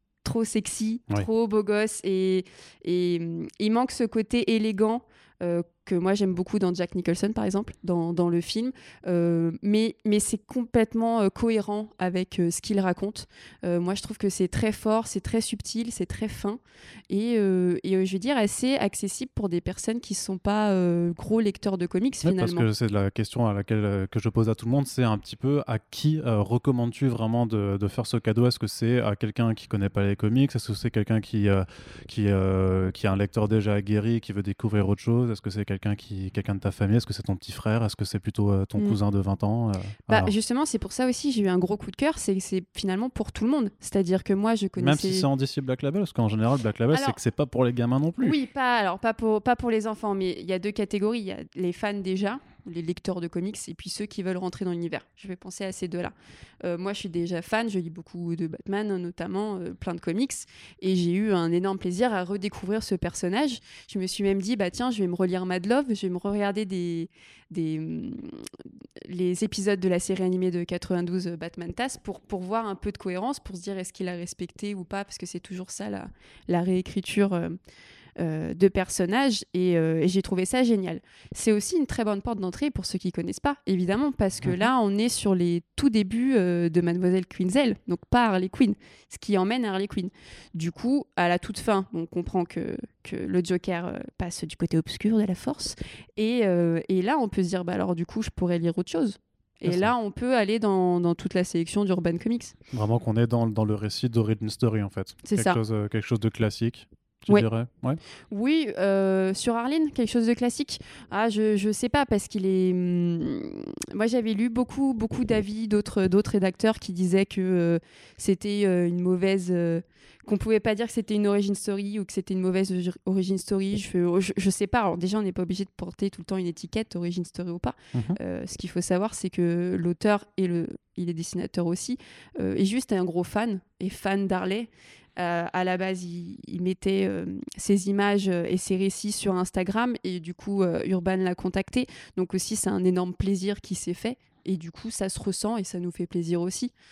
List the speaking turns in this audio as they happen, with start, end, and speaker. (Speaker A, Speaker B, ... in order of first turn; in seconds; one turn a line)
Speaker A: 0.2-22.7
Speaker B: 22.2-40.3
Speaker A: 40.1-45.3
Speaker B: 44.8-48.4
Speaker A: 46.9-47.2
Speaker A: 48.2-68.5
Speaker A: 69.0-77.6
Speaker A: 78.2-102.5
Speaker B: 84.4-84.7
Speaker B: 99.7-99.9
Speaker B: 102.7-108.0
Speaker A: 105.2-105.6
Speaker A: 108.3-146.7